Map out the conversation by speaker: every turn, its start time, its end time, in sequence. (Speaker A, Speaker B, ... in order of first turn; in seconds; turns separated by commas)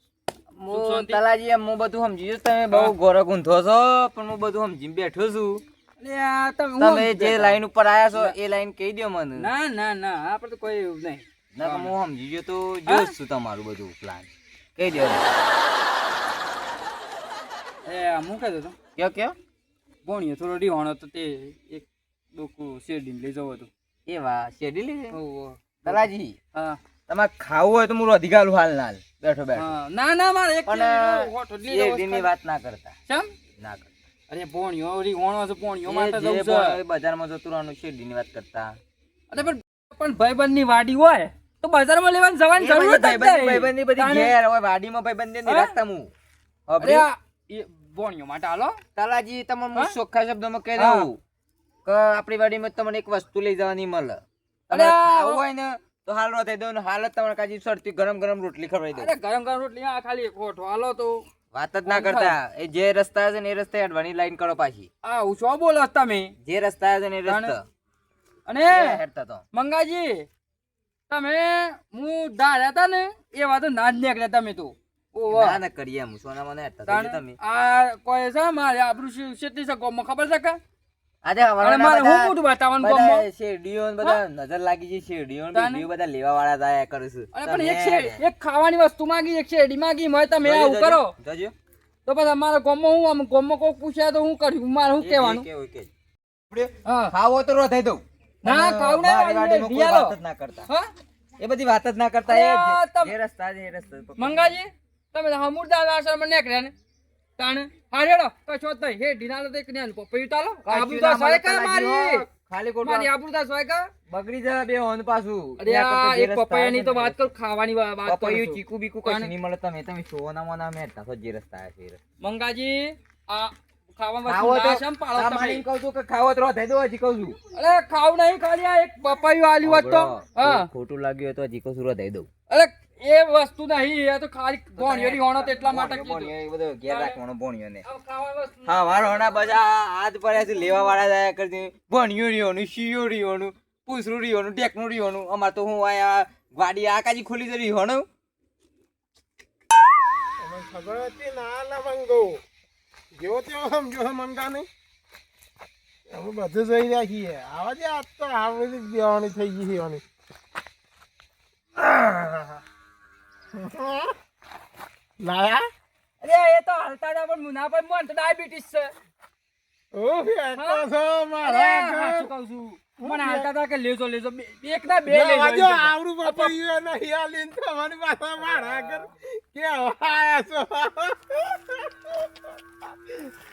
Speaker A: 0.5-5.6, Speaker B: 0.7-1.2, Speaker B: 6.0-7.6, Speaker A: 6.8-9.5, Speaker B: 9.4-11.9, Speaker A: 11.5-15.2, Speaker B: 12.9-13.1, Speaker B: 17.9-18.8, Speaker A: 19.0-19.3, Speaker B: 20.0-23.7, Speaker A: 24.1-25.2, Speaker B: 25.1-26.8, Speaker A: 25.9-26.4, Speaker A: 27.1-29.7, Speaker B: 29.6-32.3, Speaker A: 30.7-32.9, Speaker B: 33.1-33.3, Speaker A: 33.6-33.9, Speaker B: 34.3-36.8, Speaker A: 35.8-38.7, Speaker B: 39.3-44.3, Speaker A: 42.6-46.1, Speaker B: 45.5-45.7, Speaker A: 46.7-47.1, Speaker B: 46.8-48.8, Speaker A: 49.0-51.2, Speaker B: 50.8-51.1, Speaker A: 51.8-59.1, Speaker B: 54.7-55.4, Speaker B: 59.0-61.2, Speaker A: 61.5-64.9, Speaker B: 61.9-62.3, Speaker B: 65.0-66.3, Speaker A: 66.4-67.6, Speaker B: 67.3-67.5, Speaker B: 68.5-69.0, Speaker A: 68.7-69.4, Speaker B: 69.5-70.3, Speaker B: 71.1-75.6, Speaker A: 75.3-77.3, Speaker B: 76.9-80.6, Speaker A: 81.2-88.2, Speaker B: 81.6-83.2, Speaker B: 85.5-85.8, Speaker B: 87.3-91.1, Speaker A: 90.4-91.5, Speaker B: 92.0-95.5, Speaker A: 95.0-95.9, Speaker A: 96.5-100.7, Speaker B: 96.8-97.1, Speaker B: 98.4-100.1, Speaker A: 101.4-104.5, Speaker B: 102.3-103.1, Speaker B: 104.2-106.7, Speaker B: 107.4-112.2, Speaker A: 110.7-113.1, Speaker B: 112.8-113.9, Speaker A: 114.1-117.2, Speaker B: 115.6-119.3, Speaker A: 118.0-122.0, Speaker B: 122.2-125.6, Speaker A: 124.2-127.4, Speaker B: 127.5-130.7, Speaker A: 129.6-132.3, Speaker B: 132.5-136.3, Speaker A: 134.8-137.8, Speaker B: 136.9-137.2, Speaker B: 137.8-139.5, Speaker A: 138.7-148.1, Speaker C: 150.4-152.4, Speaker C: 153.1-154.7, Speaker C: 156.1-160.0, Speaker C: 161.8-162.6, Speaker C: 163.5-164.1, Speaker C: 165.2-165.7, Speaker B: 166.2-168.9, Speaker C: 169.9-172.3, Speaker B: 170.6-170.9, Speaker B: 171.4-176.5, Speaker C: 173.0-173.5, Speaker C: 175.1-182.5, Speaker B: 178.4-179.1